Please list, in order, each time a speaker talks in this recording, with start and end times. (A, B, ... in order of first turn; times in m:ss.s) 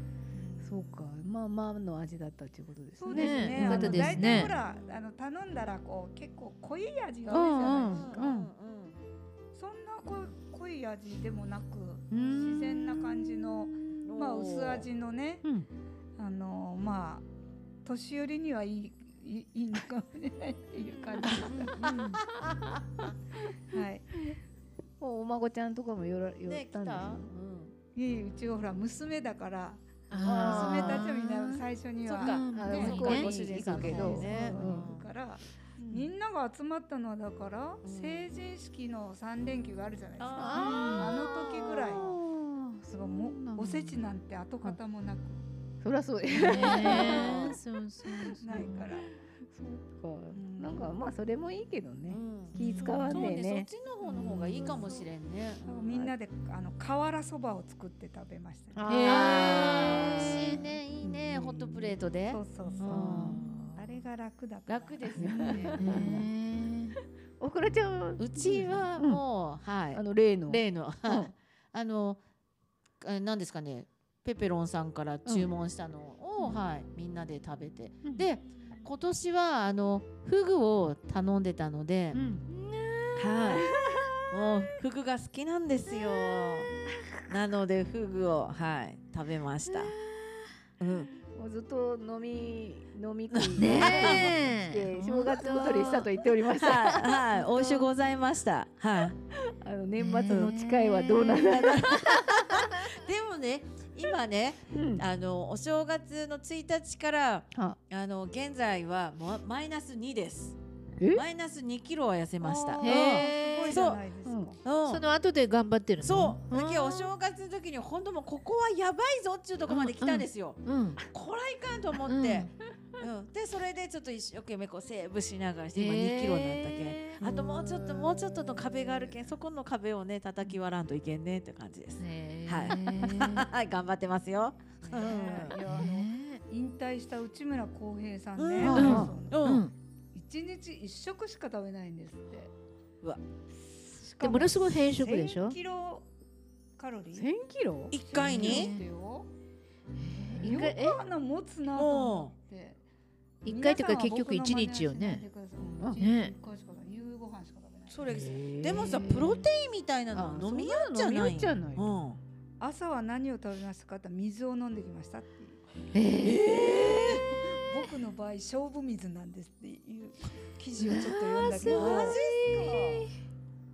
0:00.3-0:00.7 A
0:00.6-0:04.5 B
0:03.0-0:08.3 A
0:03.1-0:04.5 C
0:04.5-0:05.0 D
0:07.3-0:09.0 D
0:07.3-0:08.5 B
0:09.5-0:15.4 A
0:12.1-0:12.9 B
0:14.0-0:14.9 D
0:16.2-0:17.3 A
0:17.8-0:22.2 A
0:21.3-0:22.6 D
0:21.5-0:22.2 B
0:23.7-0:24.2 A
0:25.0-0:27.3 B
0:26.4-0:27.7 D
0:28.0-0:42.1 A
0:30.1-0:31.6 C
0:30.2-0:31.1 D
0:30.2-0:30.9 B
0:32.0-0:35.1 D
0:32.2-0:33.3 C
0:32.5-0:34.9 B
0:35.8-0:36.1 B
0:37.8-0:38.3 D
0:40.2-0:42.2 D
0:40.4-0:41.2 B
0:40.6-0:41.1 C
0:41.9-0:44.0 B
0:42.9-0:45.4 A
0:45.8-0:47.4 B
0:46.3-0:48.8 C
0:46.6-0:47.6 D
0:48.2-0:55.0 B
0:48.4-0:49.1 A
0:50.3-0:51.0 A
0:52.1-0:56.1 D
0:52.5-0:53.4 C
0:55.7-0:58.8 A
0:58.8-1:02.0 B
0:58.9-1:00.6 C
0:59.0-1:03.7 D
1:02.3-1:06.0 A
1:02.8-1:03.7 B
1:04.7-1:05.7 D
1:05.1-1:06.3 B
1:05.5-1:07.0 C
1:07.4-1:09.2 B
1:08.2-1:12.2 D
1:09.9-1:11.3 B
1:13.0-1:22.2 D
1:22.1-1:24.2 B
1:23.2-1:23.7 D
1:24.3-1:26.7 D
1:27.3-1:29.9 D
1:30.8-1:31.1 D
1:31.3-1:37.9 B
1:33.3-1:34.3 D
1:33.6-1:36.1 C
1:35.6-1:39.2 D
1:39.3-1:42.7 B
1:40.0-1:41.9 C
1:41.5-1:50.6 D
1:44.7-1:45.0 B
1:51.0-1:51.2 B
1:51.1-1:54.0 D
1:52.4-1:54.6 A
1:52.8-1:53.8 C
1:54.2-1:54.5 B
1:54.6-1:55.0 D
1:54.9-1:57.1 C
1:56.0-2:15.6 D
1:59.7-2:01.0 C
2:02.1-2:02.5 C
2:05.8-2:07.4 C
2:07.2-2:08.1 B
2:12.0-2:13.5 C
2:14.8-2:19.4 A
2:15.6-2:16.4 C
2:18.4-2:19.6 D
2:18.6-2:19.2 B
2:18.7-2:19.7 C
2:20.1-2:22.5 A
2:23.5-2:26.1 A
2:24.2-2:25.6 C
2:26.8-2:27.3 A
2:27.1-2:28.0 B
2:27.9-2:28.8 D
2:27.9-2:29.3 A
2:28.2-2:28.8 C
2:30.0-2:31.0 C
2:30.4-2:32.8 A
2:31.7-2:32.3 D
2:33.4-2:35.2 C
2:33.4-2:38.1 A
2:36.0-2:36.3 C
2:37.9-2:42.2 D
2:38.1-2:39.4 B
2:40.1-2:41.9 B
2:42.6-2:45.6 A
2:45.9-2:46.7 C
2:46.2-2:47.2 D
2:46.6-2:52.2 A
2:50.8-2:53.1 C
2:51.6-2:53.1 D